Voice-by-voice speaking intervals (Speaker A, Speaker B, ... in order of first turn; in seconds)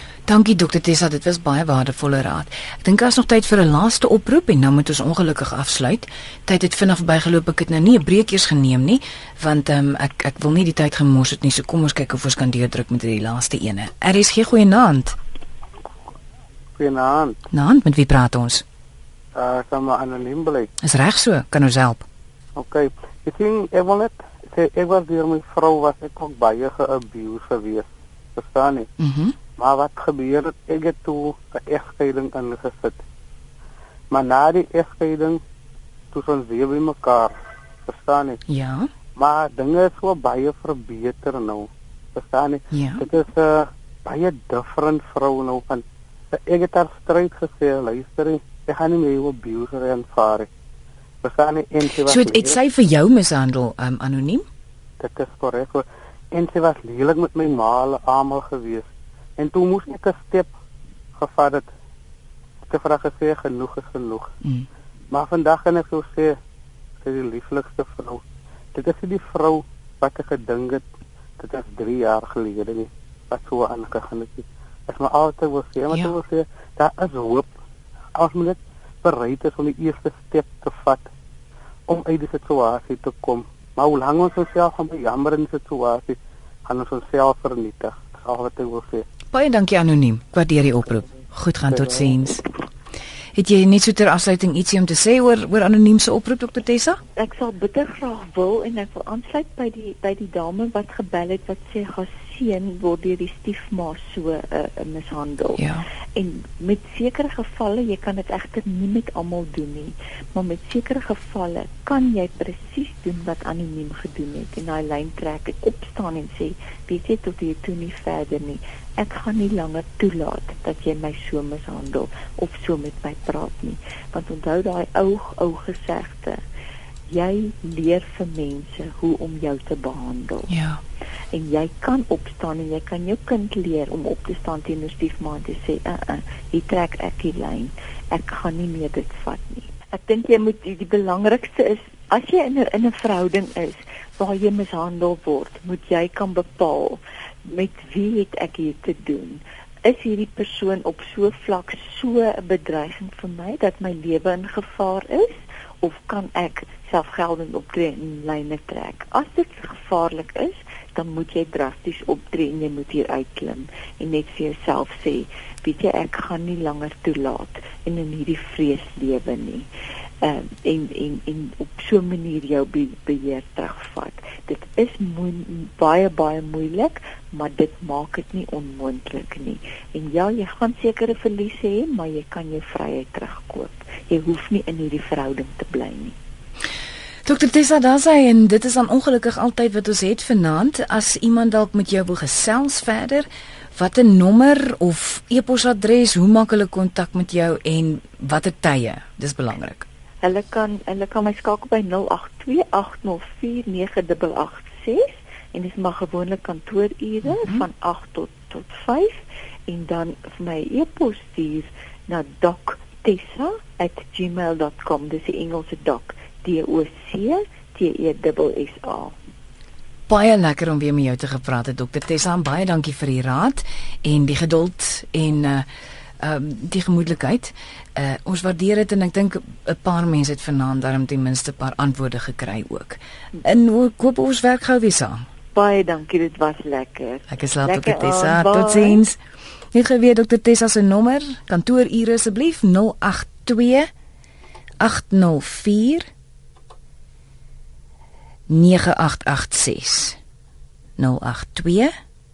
Speaker A: 0.3-15.2, 17.5-18.6, 20.8-22.0, 29.0-29.3, 38.5-38.9, 42.7-43.0, 52.0-54.4, 89.3-92.4, 93.3-97.0, 105.6-105.8, 130.5-130.8, 187.2-199.9, 220.1-225.7, 226.2-235.2, 237.3-239.2, 239.7-243.9, 244.8-246.1, 248.5-250.2, 251.0-251.9
Speaker B: 16.8-17.4, 19.3-20.7, 22.6-28.9, 29.6-33.0, 34.1-35.4, 36.1-37.3, 37.8-38.4, 39.2-50.5, 51.2-52.6, 55.0-58.9, 59.4-60.5, 61.2-61.7, 62.7-64.3, 65.1-66.4, 67.0-68.2, 68.7-70.8, 71.4-77.5, 78.2-81.1, 81.9-89.0, 91.7-92.1
Speaker C: 97.2-105.6, 106.2-126.4, 127.1-130.5, 131.3-169.7, 170.2-186.2, 200.2-219.2, 235.5-239.0